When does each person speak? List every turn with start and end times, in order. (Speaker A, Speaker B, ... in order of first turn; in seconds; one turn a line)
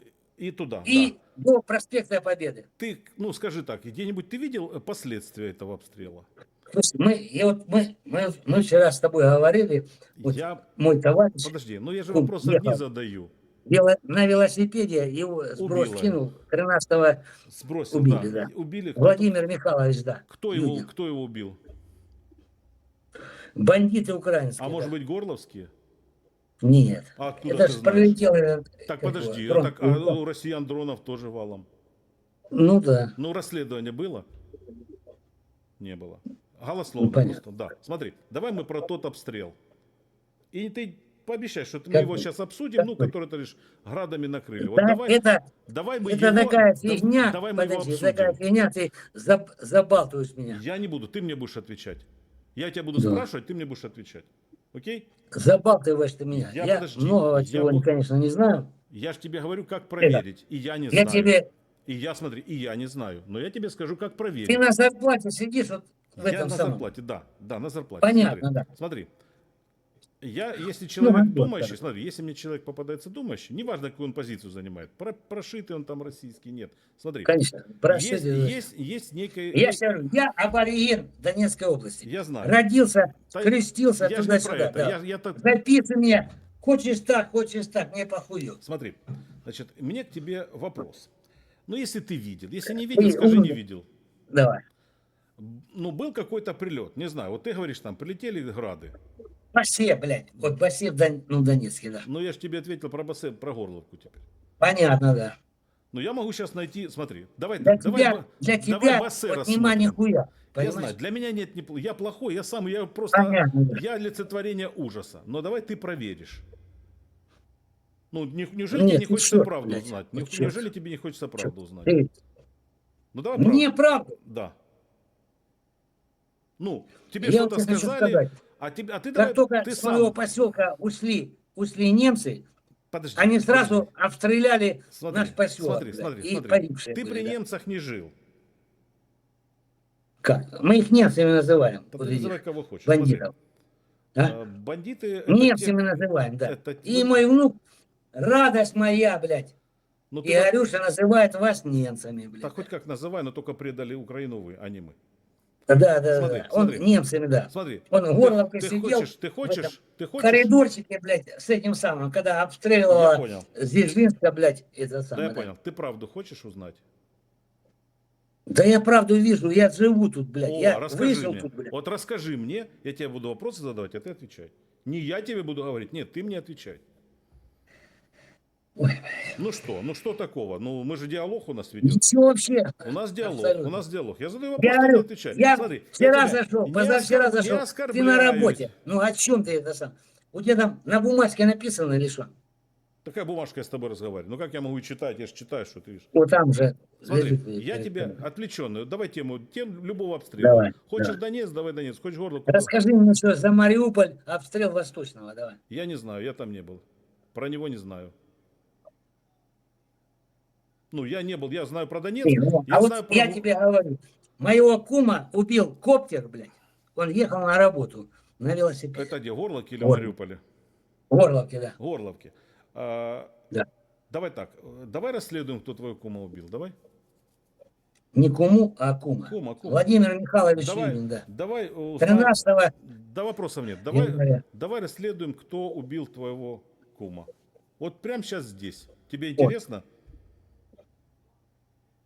Speaker A: 0.4-1.1
Speaker B: 0.9-2.7
Speaker A: 2.8-6.3
Speaker B: 6.7-11.5
Speaker A: 10.2-10.6
Speaker A: 11.4-13.3
Speaker B: 12.1-12.8
Speaker B: 13.7-17.2
Speaker A: 15.6-16.2
Speaker A: 17.5-19.3
Speaker B: 17.9-20.9
Speaker A: 20.3-21.6
Speaker B: 23.6-24.9
Speaker A: 24.6-25.7
Speaker B: 26.6-30.2
Speaker A: 27.2-28.2
Speaker A: 28.9-31.7
Speaker B: 32.5-33.1
Speaker A: 33.2-34.3
Speaker A: 35.8-39.6
Speaker B: 37.0-37.4
Speaker A: 40.5-48.4
Speaker B: 41.9-42.2
Speaker B: 42.8-43.1
Speaker B: 44.6-45.5
Speaker B: 46.0-50.6
Speaker A: 50.5-55.1
Speaker B: 53.0-53.2
Speaker B: 55.3-58.7
Speaker A: 56.3-57.9
Speaker A: 58.9-64.6
Speaker B: 60.9-61.5
Speaker B: 64.5-66.8
Speaker A: 66.2-69.1
Speaker B: 68.0-68.7
Speaker A: 70.2-77.3
Speaker B: 71.0-71.8
Speaker B: 77.2-78.6
Speaker A: 77.9-79.8
Speaker B: 79.5-88.6
Speaker A: 82.0-82.6
Speaker A: 83.3-85.4
Speaker A: 88.6-91.1
Speaker A: 91.7-93.9
Speaker B: 92.9-93.6
Speaker B: 94.3-94.6
Speaker A: 95.4-99.0
Speaker B: 99.5-102.1
Speaker A: 102.0-104.2
Speaker B: 104.6-105.4
Speaker A: 105.9-110.0
Speaker B: 107.6-111.0
Speaker A: 110.6-116.5
Speaker B: 113.1-113.8
Speaker A: 118.1-122.0
Speaker B: 118.7-120.6
Speaker B: 121.4-122.1
Speaker A: 123.1-123.7
Speaker B: 123.4-124.1
Speaker A: 124.2-124.5
Speaker A: 126.6-130.2
Speaker B: 127.2-128.3
Speaker B: 129.2-132.5
Speaker A: 132.9-133.9
Speaker B: 133.2-137.3
Speaker A: 134.9-138.1
Speaker B: 140.2-143.3
Speaker A: 141.9-143.3
Speaker A: 144.2-147.2
Speaker B: 145.3-147.6
Speaker B: 148.1-149.5
Speaker A: 150.1-150.5
Speaker B: 150.2-152.7
Speaker A: 152.4-155.0
Speaker B: 155.7-165.5
Speaker A: 156.1-156.9
Speaker A: 157.5-160.5
Speaker A: 162.9-163.5
Speaker A: 165.1-166.8
Speaker B: 168.5-171.7
Speaker A: 170.4-176.8
Speaker B: 178.8-179.3
Speaker A: 179.4-182.0
Speaker B: 181.8-183.8
Speaker A: 182.8-188.7
Speaker B: 184.6-192.3
Speaker A: 193.0-196.1
Speaker B: 196.1-198.2
Speaker A: 197.1-202.7
Speaker B: 200.4-201.2
Speaker B: 202.5-205.6
Speaker A: 205.7-208.1
Speaker A: 210.9-213.4
Speaker B: 212.2-219.1
Speaker A: 218.9-220.4
Speaker B: 219.8-220.1
Speaker B: 221.1-221.8
Speaker A: 221.8-223.3
Speaker A: 224.1-226.7
Speaker B: 228.1-231.2
Speaker A: 229.3-229.8
Speaker A: 230.6-239.8
Speaker B: 232.0-232.7
Speaker B: 233.9-234.4